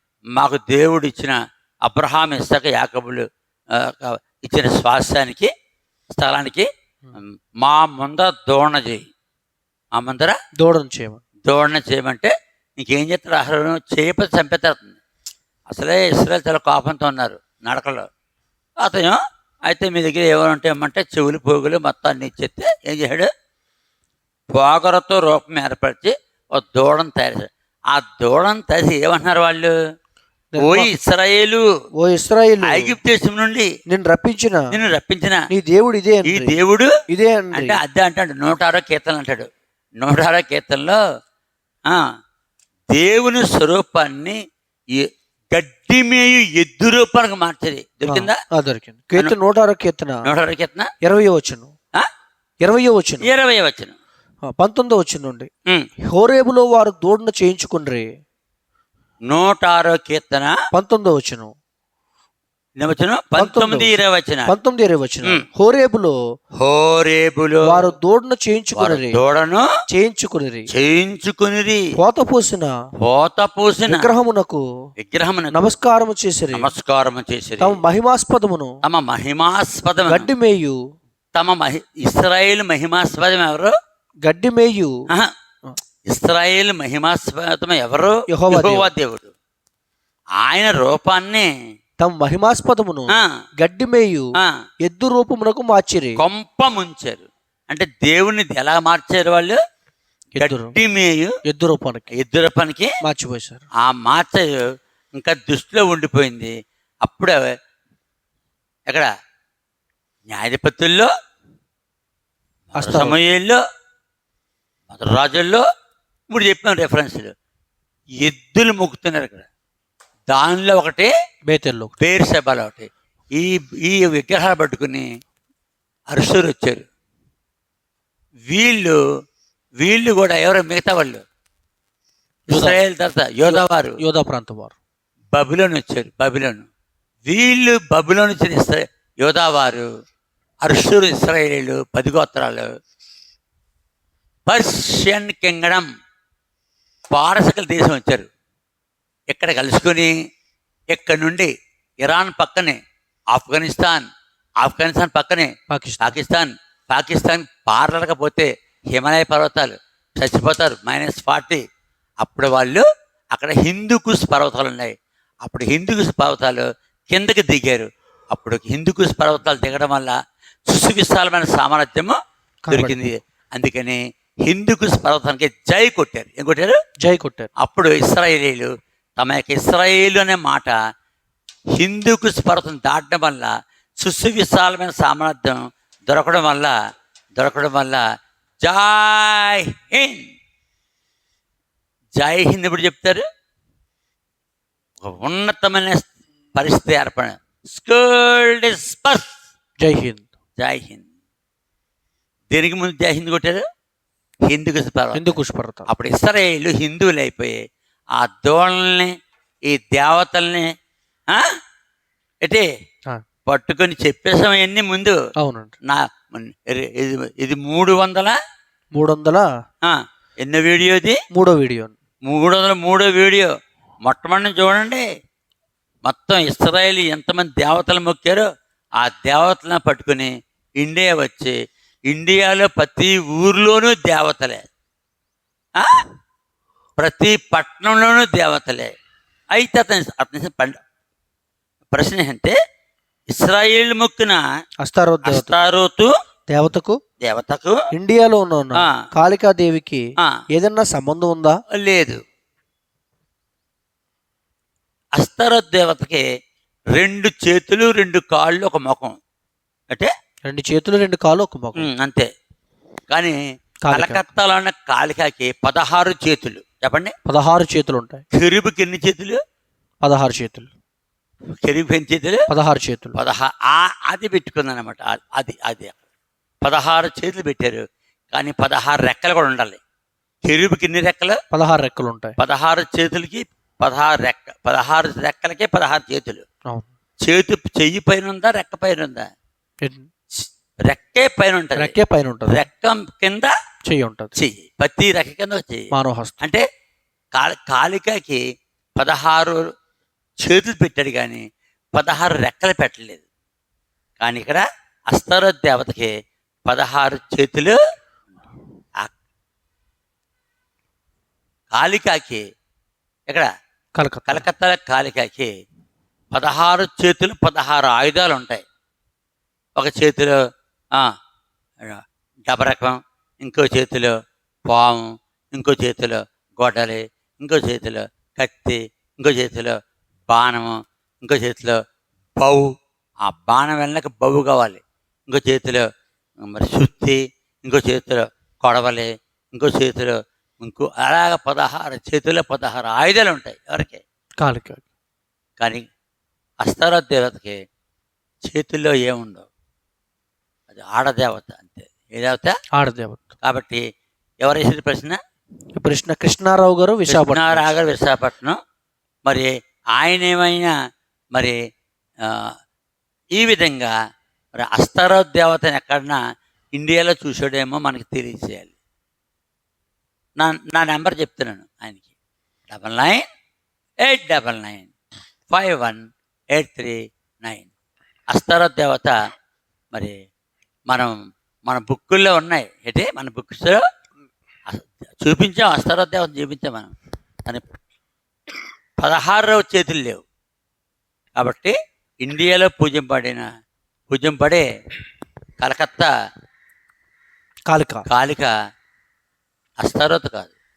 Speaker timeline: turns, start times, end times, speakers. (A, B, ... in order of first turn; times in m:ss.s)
0:00.4-0:05.5 A
0:06.1-0:09.1 A
0:10.0-0:10.4 A
0:10.6-0:11.2 B
0:11.5-0:15.0 A
0:15.7-0:18.1 A
0:18.8-0:23.3 A
0:24.5-0:29.7 A
0:30.5-0:30.9 B
0:30.6-0:31.6 A
0:32.0-0:33.0 B
0:32.6-0:33.7 A
0:33.9-0:34.7 B
0:34.7-0:35.4 A
0:35.5-0:36.6 B
0:36.2-0:36.9 A
0:37.1-0:37.8 B
0:37.6-0:39.5 A
0:40.0-0:41.0 A
0:42.9-0:44.4 A
0:45.0-0:48.4 A
0:48.1-0:50.2 B
0:50.3-0:50.9 A
0:51.0-0:51.7 B
0:52.6-0:53.3 B
0:53.2-0:54.0 A
0:54.6-0:55.5 B
0:56.1-0:58.1 B
0:59.3-1:00.6 A
1:00.7-1:01.5 B
1:02.8-1:04.5 A
1:03.4-1:03.9 B
1:04.5-1:06.1 B
1:06.6-1:07.8 A
1:07.7-1:09.2 B
1:08.8-1:09.7 A
1:09.9-1:10.7 B
1:10.7-1:11.8 A
1:12.0-1:12.7 B
1:13.0-1:14.1 A
1:13.9-1:14.6 B
1:15.0-1:15.7 A
1:15.5-1:16.7 B
1:16.5-1:17.8 A
1:17.6-1:18.8 B
1:18.8-1:20.3 A
1:20.1-1:20.8 B
1:21.4-1:23.7 A
1:24.2-1:24.9 B
1:26.1-1:29.3 A
1:28.3-1:28.9 B
1:30.4-1:31.5 A
1:32.0-1:34.3 B
1:34.9-1:36.2 B
1:36.2-1:39.6 A
1:40.4-1:40.8 B
1:40.4-1:41.3 A
1:41.5-1:42.1 B
1:42.1-1:42.9 A
1:43.0-1:43.6 B
1:43.8-1:44.6 A
1:45.2-1:46.5 A
1:47.0-1:47.4 A
1:50.3-1:51.1 A
1:52.7-1:53.6 A
1:52.8-1:53.2 B
1:54.9-1:55.6 A
1:56.3-1:57.3 A
1:58.2-1:59.5 A
2:00.3-2:01.1 A
2:01.5-2:02.0 B
2:02.0-2:05.1 A
2:06.1-2:06.8 A
2:08.5-2:09.0 A
2:09.8-2:11.2 A
2:12.5-2:14.0 A
2:12.5-2:12.8 B
2:13.5-2:14.8 B
2:15.3-2:16.7 A
2:17.3-2:19.9 A
2:20.6-2:22.7 A
2:24.5-2:25.9 A
2:27.1-2:28.3 A
2:29.3-2:30.1 A
2:30.9-2:31.5 A
2:32.0-2:32.8 A
2:33.3-2:34.1 A
2:34.6-2:35.5 A
2:35.7-2:36.2 B
2:36.0-2:41.6 A
2:42.2-2:50.1 A
2:50.7-2:52.2 A
2:52.6-2:53.0 B
2:52.7-2:56.8 A
2:57.0-2:57.5 B
2:57.6-3:00.7 A
3:01.8-3:06.7 A
3:07.4-3:08.0 A
3:08.6-3:10.2 A
3:12.2-3:13.2 A
3:15.0-3:19.3 A
3:19.8-3:20.3 B
3:20.6-3:21.0 A
3:22.5-3:23.6 A
3:24.5-3:25.4 A
3:25.1-3:25.9 B
3:25.9-3:27.6 A
3:28.2-3:29.1 A
3:29.7-3:30.7 A
3:33.5-3:35.2 A
3:35.4-3:35.7 B
3:35.9-3:38.4 A
3:39.0-3:39.4 B
3:39.8-3:41.2 A
3:41.3-3:42.0 B
3:42.3-3:43.5 A
3:44.1-3:45.0 A
3:46.1-3:48.5 A
3:49.0-3:51.5 A
3:52.1-3:54.6 A
3:57.0-3:58.9 A
3:59.5-4:00.8 A
4:01.9-4:02.6 A
4:03.3-4:04.4 A
4:04.8-4:05.6 B
4:05.2-4:06.1 A
4:06.5-4:07.0 B
4:07.2-4:07.8 A
4:07.9-4:10.0 B
4:10.5-4:11.6 B
4:11.7-4:12.2 A
4:15.2-4:16.2 A
4:17.0-4:19.2 A
4:20.5-4:21.9 B
4:21.8-4:22.3 A
4:23.1-4:23.4 A
4:23.8-4:24.2 B
4:23.9-4:27.1 A
4:27.3-4:28.2 B
4:28.3-4:29.4 A
4:30.0-4:30.7 B
4:31.6-4:32.4 A
4:32.5-4:33.2 B
4:33.2-4:36.0 A
4:36.6-4:39.8 A
4:40.4-4:41.4 A
4:41.5-4:42.4 B
4:42.4-4:46.4 A
4:47.2-4:49.3 A
4:49.8-4:50.1 B
4:50.9-4:52.0 A
4:51.8-4:52.6 B
4:52.5-4:53.5 A
4:53.9-4:54.4 B
4:54.4-4:56.6 A
4:55.9-4:56.4 B
4:57.3-4:58.4 A
4:59.0-4:59.6 A
5:00.4-5:01.4 A
5:02.0-5:03.2 A
5:04.2-5:06.1 A
5:06.7-5:07.8 A
5:11.7-5:12.4 A
5:14.0-5:14.5 B
5:14.3-5:15.5 A
5:16.3-5:18.6 A
5:19.8-5:20.4 A
5:21.8-5:24.1 A
5:24.7-5:29.8 A
5:30.3-5:31.8 A
5:32.4-5:32.7 A
5:33.3-5:35.9 A
5:36.5-5:44.0 A
5:44.4-5:44.8 B
5:45.6-5:45.9 A
5:46.6-5:47.6 A
5:48.4-5:49.5 A
5:50.7-5:52.5 A
5:52.8-5:53.2 B
5:53.4-5:53.8 A
5:54.4-5:55.2 A
5:55.8-5:57.7 B
5:57.1-5:58.6 A
5:59.3-6:00.7 A
6:02.2-6:02.5 A
6:03.4-6:03.9 A
6:04.6-6:06.2 A
6:06.8-6:08.7 A
6:10.4-6:12.0 A
6:12.7-6:13.3 A
6:14.0-6:14.9 A
6:15.5-6:17.7 A
6:18.3-6:19.2 A
6:20.9-6:23.8 A
6:24.7-6:26.9 A
6:29.0-6:30.2 A
6:31.4-6:33.4 A
6:34.1-6:34.7 A
6:35.6-6:36.1 A
6:37.7-6:38.0 B
6:38.1-6:38.5 A
6:39.8-6:40.5 A